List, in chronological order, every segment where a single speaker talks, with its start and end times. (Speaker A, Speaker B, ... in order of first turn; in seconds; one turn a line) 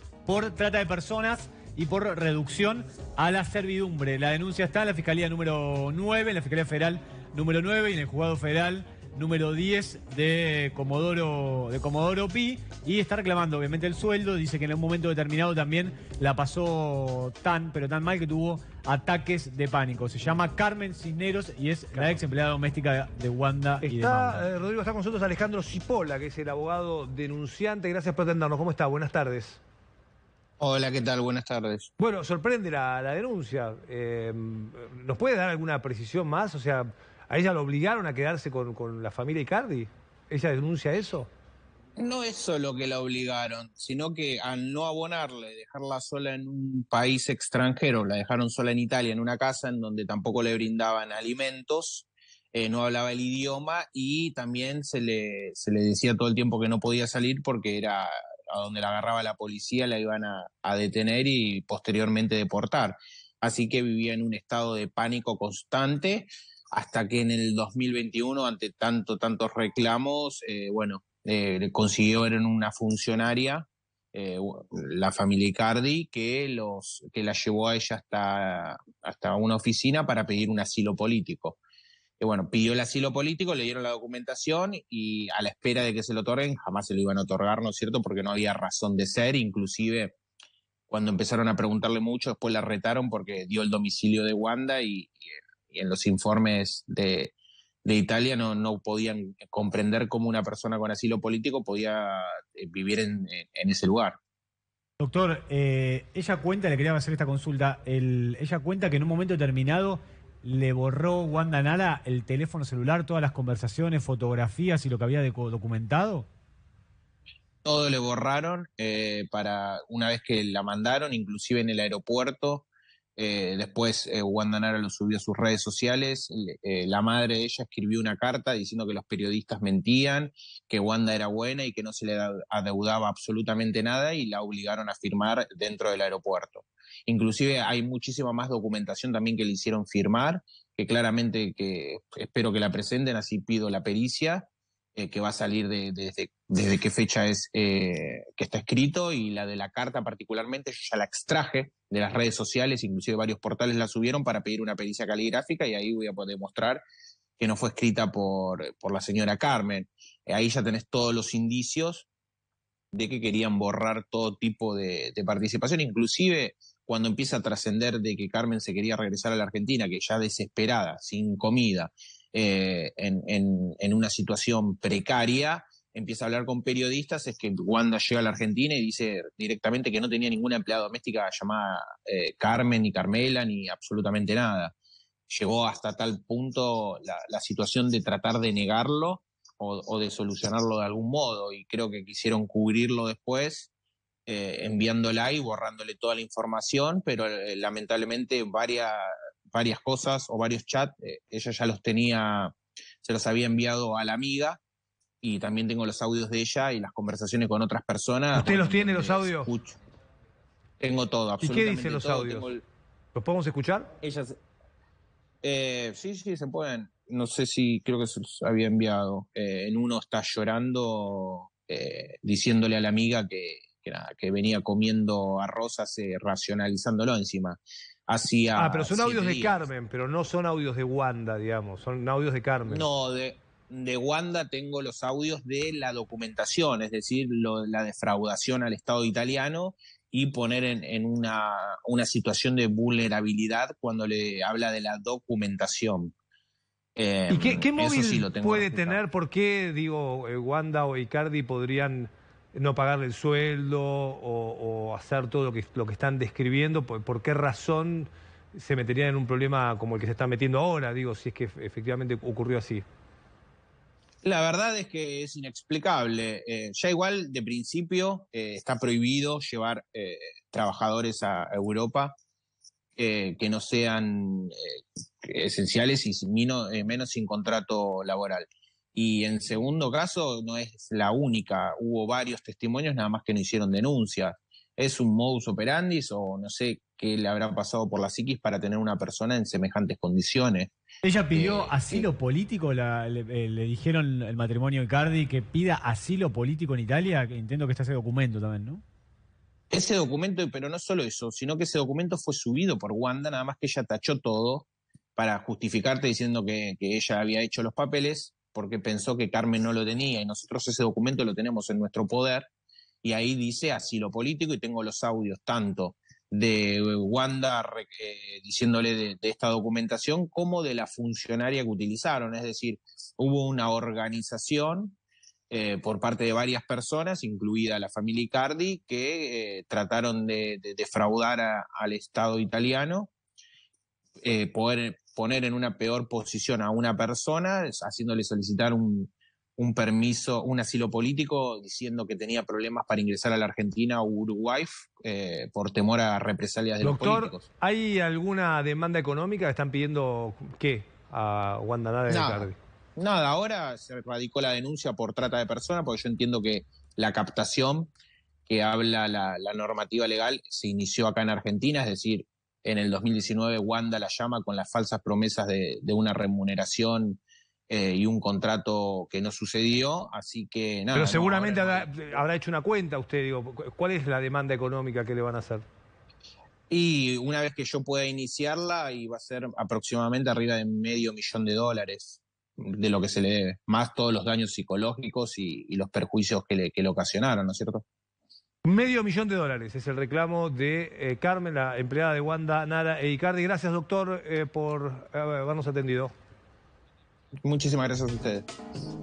Speaker A: 0.2-24.5
Speaker B: 23.8-29.6
Speaker C: 30.6-31.9
Speaker B: 32.0-41.3
Speaker C: 42.0-81.6
Speaker C: 82.2-90.1
Speaker C: 90.9-97.3
Speaker C: 97.8-104.2
Speaker A: 105.0-116.3
Speaker C: 117.6-156.8
Speaker C: 157.4-162.1
Speaker C: 162.9-184.7
Speaker C: 185.3-193.7
Speaker C: 194.2-204.6
Speaker C: 205.2-209.8
Speaker B: 208.3-209.5
Speaker C: 210.8-212.6
Speaker B: 211.4-212.5
Speaker B: 213.1-213.9
Speaker C: 214.0-214.4
Speaker C: 215.4-229.7
Speaker B: 228.6-232.8
Speaker C: 232.7-246.1
Speaker C: 246.9-249.0
Speaker B: 247.3-262.8
Speaker C: 264.2-272.1
Speaker C: 272.9-290.7
Speaker A: 291.0-298.8
Speaker C: 291.3-292.1
Speaker C: 299.7-312.5
Speaker C: 313.0-325.0
Speaker C: 325.5-333.1
Speaker C: 334.2-347.5
Speaker B: 346.8-352.6
Speaker C: 352.1-357.9
Speaker C: 358.5-372.2
Speaker B: 370.9-375.6
Speaker C: 376.7-387.8
Speaker B: 388.6-396.1
Speaker C: 397.4-398.5